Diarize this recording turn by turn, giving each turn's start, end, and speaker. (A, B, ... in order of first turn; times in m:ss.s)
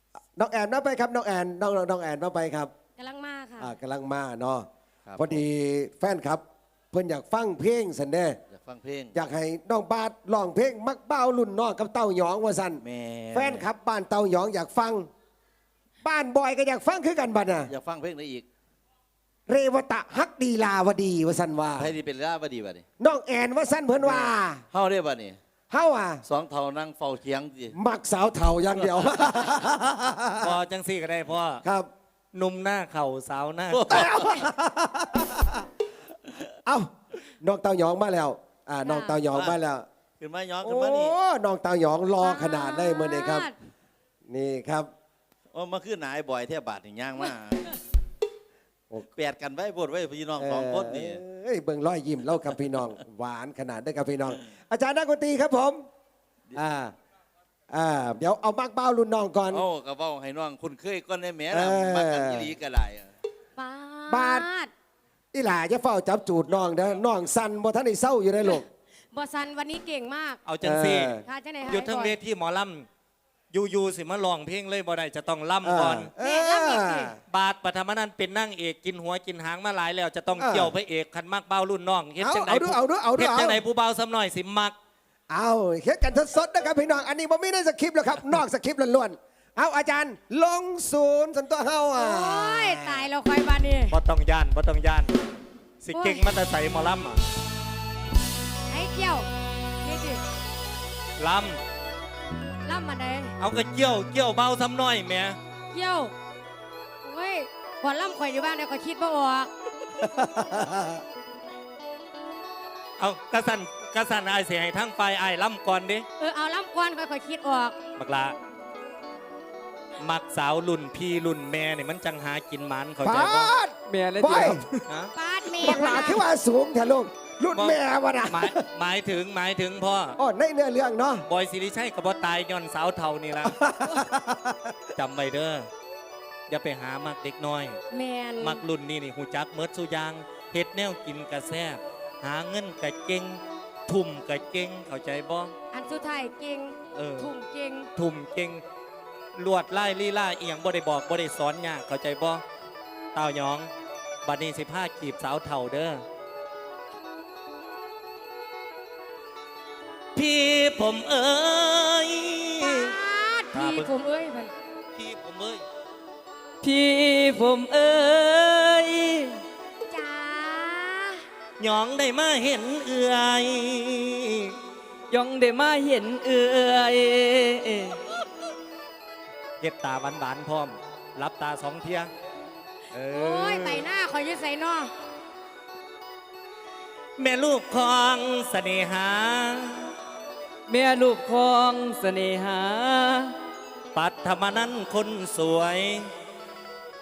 0:00.4-0:02.7 A
0:03.0-0:03.7 B
0:03.6-0:08.4 A
0:05.0-0:05.4 C
0:08.5-0:09.2 C
0:09.1-0:12.8 A
0:12.8-0:13.7 C
0:13.3-0:15.1 A
0:16.0-0:17.7 A
0:17.7-0:18.5 C
0:19.5-0:21.9 A
0:21.8-0:22.8 C
0:23.0-0:24.6 A
0:24.0-0:25.4 C
0:25.7-0:26.2 A
0:26.2-0:27.7 C
0:27.7-0:30.6 A
0:30.4-0:31.6 D
0:31.6-0:31.9 A
0:32.3-0:34.1 D
0:33.7-0:34.5 C
0:33.9-0:35.4 A
0:36.6-0:39.8 A
0:38.8-0:39.2 B
0:39.3-0:39.6 C
0:40.2-0:41.1 C
0:40.6-0:43.5 A
0:42.2-0:43.5 B
0:44.3-0:44.9 A
0:45.5-0:47.8 C
0:49.0-0:51.2 C
0:50.4-0:55.8 A
0:56.5-0:56.9 A
0:57.7-0:59.6 A
0:59.5-1:03.1 C
1:01.5-1:02.5 A
1:03.6-1:04.7 B
1:04.1-1:04.5 A
1:05.3-1:08.6 A
1:08.4-1:10.4 B
1:10.4-1:12.9 D
1:10.6-1:11.2 A
1:11.2-1:12.1 B
1:13.5-1:16.1 D
1:15.6-1:17.2 A
1:16.2-1:17.1 B
1:17.3-1:24.7 D
1:20.4-1:20.7 A
1:22.2-1:23.6 A
1:25.3-1:33.1 A
1:31.9-1:34.0 B
1:33.9-1:35.1 D
1:35.8-1:37.2 D
1:35.9-1:36.2 B
1:38.7-1:39.3 B
1:39.8-1:40.2 B
1:41.2-1:41.6 D
1:42.6-1:43.3 B
1:43.4-1:45.4 D
1:45.7-1:46.1 B
1:47.0-1:49.5 B
1:50.0-1:51.0 A
1:53.0-1:56.1 D
1:56.2-1:57.8 B
1:58.0-1:58.3 D
2:00.0-2:03.5 D
2:03.0-2:04.6 A
2:03.9-2:04.8 E
2:05.1-2:06.2 B
2:05.6-2:08.6 A
2:07.5-2:10.2 D
2:10.2-2:11.2 A
2:11.3-2:13.6 D
2:13.4-2:14.7 A
2:14.9-2:15.7 D
2:16.5-2:17.8 D
2:17.9-2:18.6 B
2:18.4-2:25.5 D
2:25.7-2:27.9 B
2:26.9-2:27.3 D
2:28.0-2:28.6 D
2:29.4-2:32.4 D
2:33.1-2:33.7 D
2:34.2-2:36.0 D
2:40.2-2:42.9 D
2:42.6-2:44.5 B
2:43.5-2:43.9 D
2:44.9-2:45.6 D
2:46.6-2:49.4 E
2:49.9-2:51.2 B
2:51.6-2:54.5 D
2:55.1-2:58.0 E
2:59.6-3:02.1 D
3:02.9-3:03.8 D
3:03.1-3:04.9 B
3:07.2-3:09.9 D
3:10.7-3:13.3 E
3:13.9-3:16.1 D